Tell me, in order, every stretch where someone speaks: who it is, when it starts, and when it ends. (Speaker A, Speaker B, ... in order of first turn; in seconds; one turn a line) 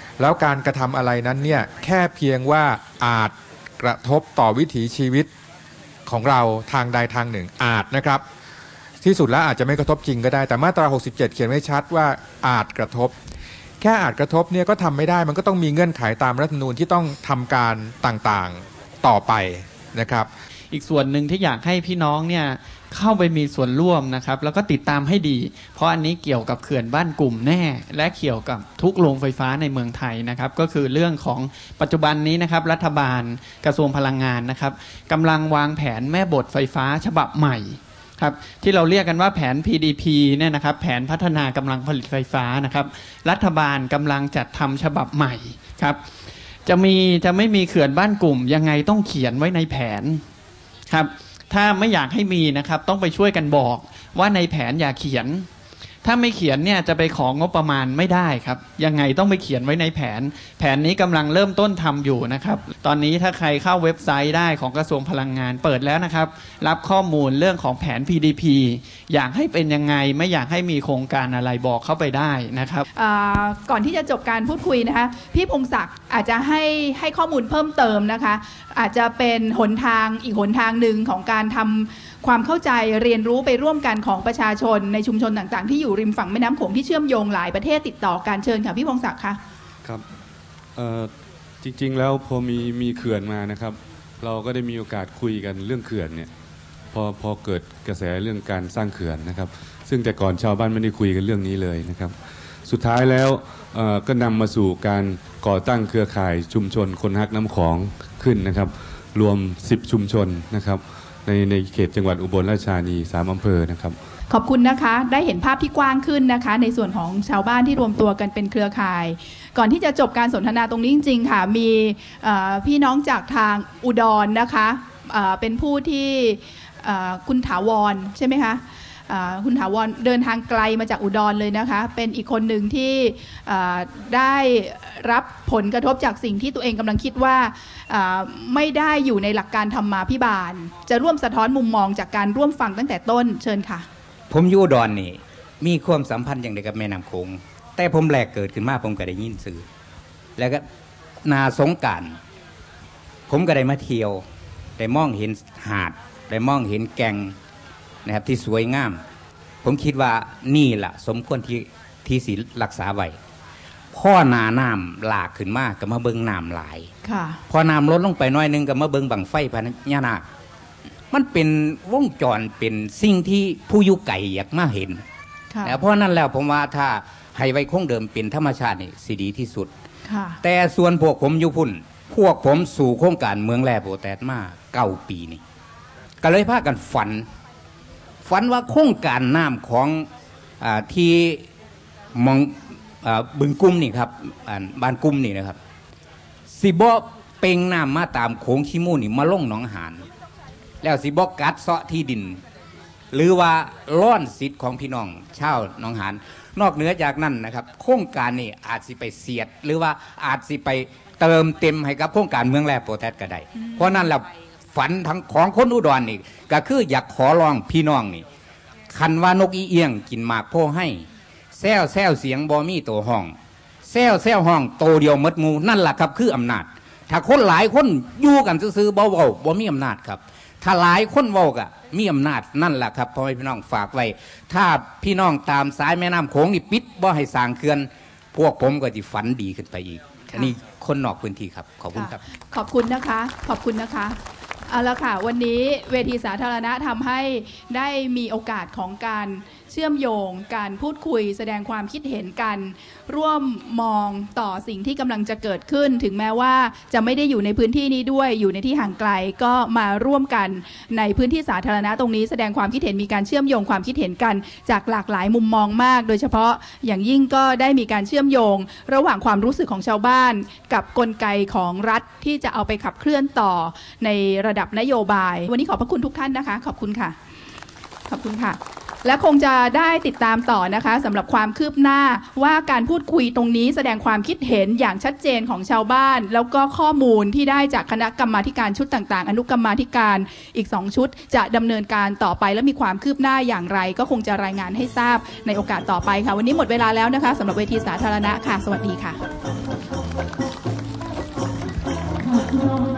Speaker A: 0.2-5.3
Speaker A: 6.1-8.2
Speaker A: 9.0-13.1
Speaker A: 13.8-20.3
Speaker B: 20.7-46.0
Speaker B: 46.7-50.2
Speaker B: 50.9-55.5
Speaker B: 56.0-72.8
Speaker C: 72.9-89.4
Speaker D: 90.8-91.1
Speaker D: 91.6-96.3
Speaker D: 96.9-102.1
Speaker D: 102.7-114.0
Speaker C: 114.3-143.9
Speaker E: 144.3-149.6
Speaker E: 150.4-150.6
Speaker E: 151.2-152.2
Speaker E: 153.3-154.2
Speaker E: 154.8-157.3
Speaker E: 158.1-159.0
Speaker E: 159.6-163.2
Speaker E: 163.9-166.9
Speaker C: 167.0-167.4
Speaker E: 167.5-170.2
Speaker E: 171.1-175.0
Speaker C: 175.5-175.8
Speaker E: 175.7-179.7
Speaker C: 180.1-180.4
Speaker E: 180.4-185.4
Speaker E: 186.2-187.2
Speaker E: 188.2-190.1
Speaker E: 190.6-191.4
Speaker E: 192.2-195.6
Speaker E: 196.5-200.1
Speaker E: 200.8-202.4
Speaker E: 203.1-218.2
Speaker E: 218.9-242.2
Speaker C: 241.9-277.2
Speaker C: 278.1-299.2